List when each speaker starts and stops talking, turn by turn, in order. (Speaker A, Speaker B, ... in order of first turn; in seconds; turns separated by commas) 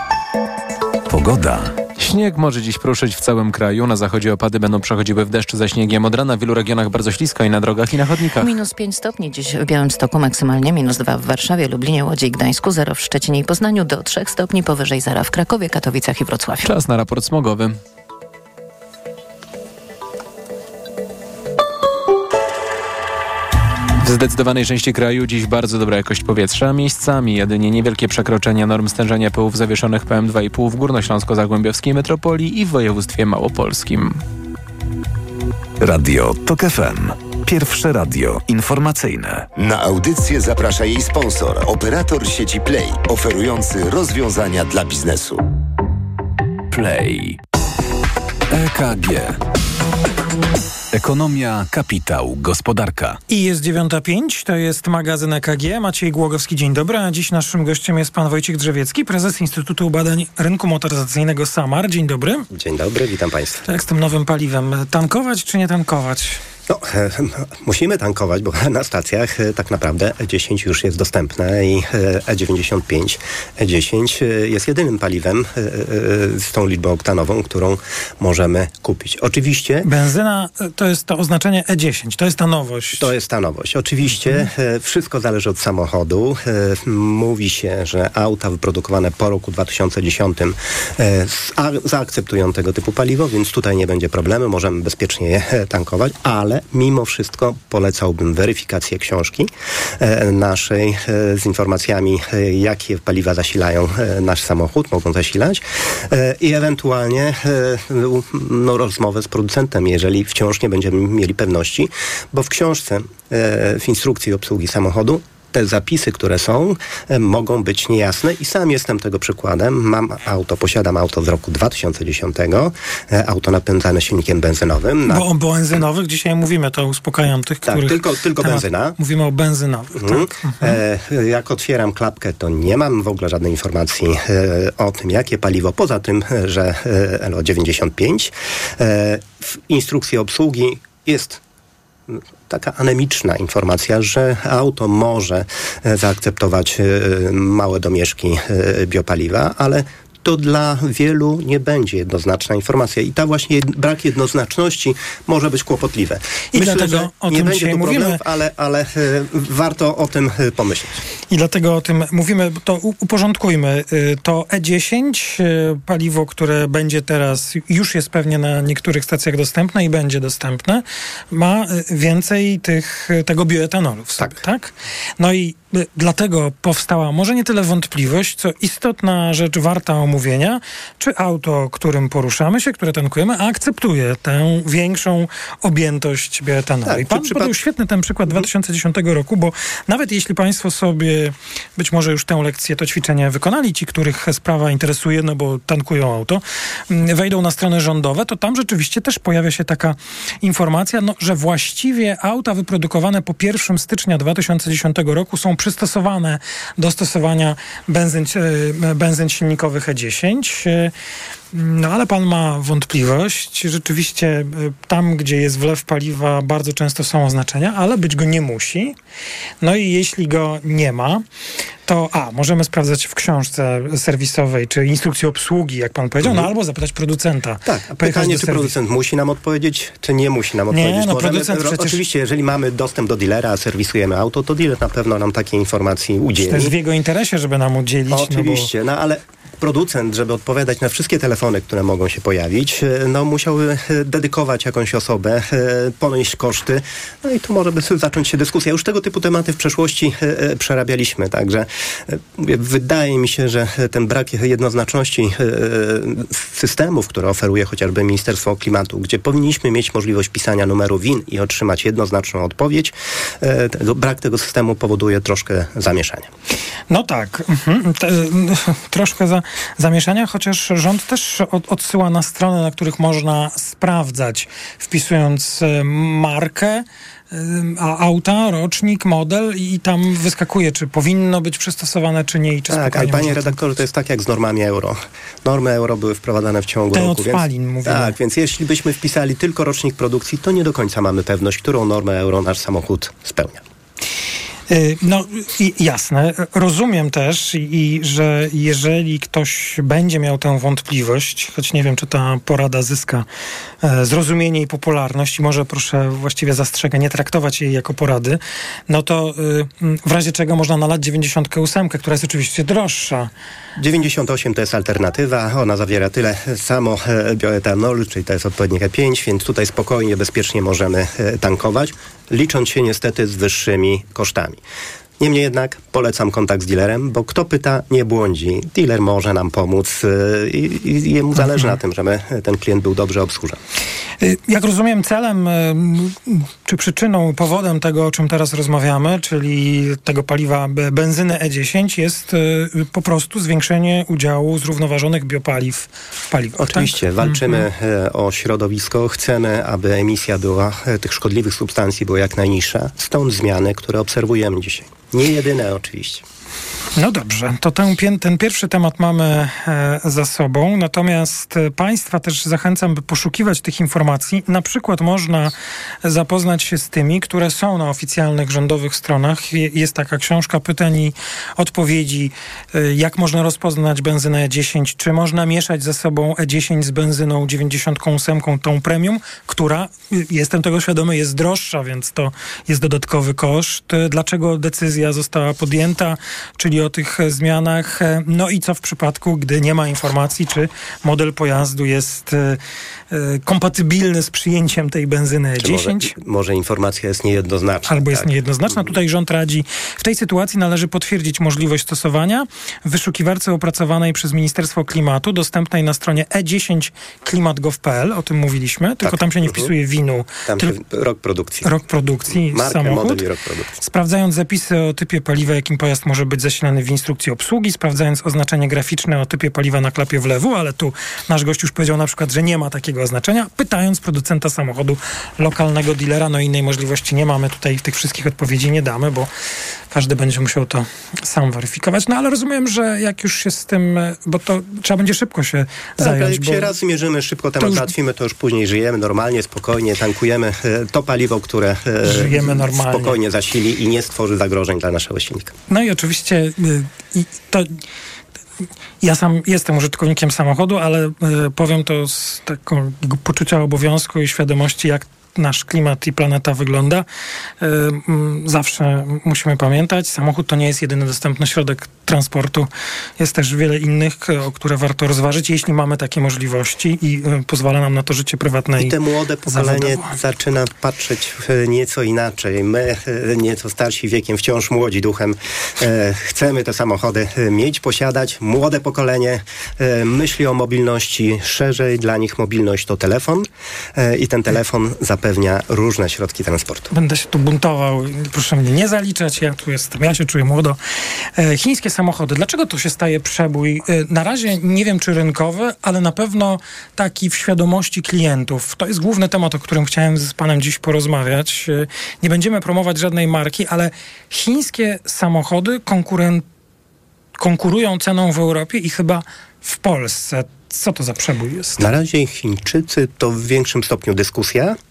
Speaker A: 1.1-1.7, Speaker B: 2.0-8.5, Speaker C: 8.4-16.7, Speaker B: 16.6-17.8, Speaker B: 24.0-34.2, Speaker A: 35.8-39.5, Speaker D: 39.6-45.4, Speaker A: 46.7-47.4, Speaker A: 48.5-49.4, Speaker A: 50.9-53.2, Speaker E: 53.3-62.5, Speaker F: 62.5-63.6, Speaker E: 63.7-66.4, Speaker F: 66.7-79.9, Speaker E: 79.8-83.1, Speaker F: 83.0-125.3, Speaker E: 125.1-130.8, Speaker F: 127.7-129.0, Speaker F: 130.0-141.4, Speaker F: 142.1-161.0, Speaker E: 156.5-158.2, Speaker E: 161.3-210.9, Speaker F: 186.8-187.5, Speaker E: 211.5-218.9, Speaker E: 219.6-221.2, Speaker E: 221.9-228.7, Speaker F: 226.2-226.5, Speaker F: 227.7-236.8, Speaker E: 230.7-232.0, Speaker E: 236.4-238.7, Speaker F: 238.1-266.3, Speaker E: 266.9-283.6, Speaker F: 282.7-293.6, Speaker E: 286.9-288.1, Speaker E: 294.7-303.3, Speaker E: 303.8-313.3, Speaker F: 313.8-324.6, Speaker F: 325.2-333.6, Speaker E: 334.2-347.6, Speaker F: 346.6-356.2, Speaker E: 357.0-365.5, Speaker E: 366.0-392.6, Speaker E: 393.1-396.1, Speaker F: 395.6-398.9, Speaker E: 397.9-410.7, Speaker F: 409.0-409.7, Speaker F: 410.5-411.7, Speaker E: 411.6-413.2, Speaker F: 412.3-413.8, Speaker E: 413.8-429.3, Speaker E: 429.9-436.7, Speaker F: 436.0-445.5, Speaker E: 437.6-437.9, Speaker E: 442.0-443.2, Speaker E: 445.7-447.8, Speaker E: 449.0-457.1, Speaker E: 457.6-470.1, Speaker F: 468.8-486.9, Speaker E: 486.9-490.8, Speaker E: 491.4-506.4, Speaker E: 507.4-511.9, Speaker F: 511.8-514.8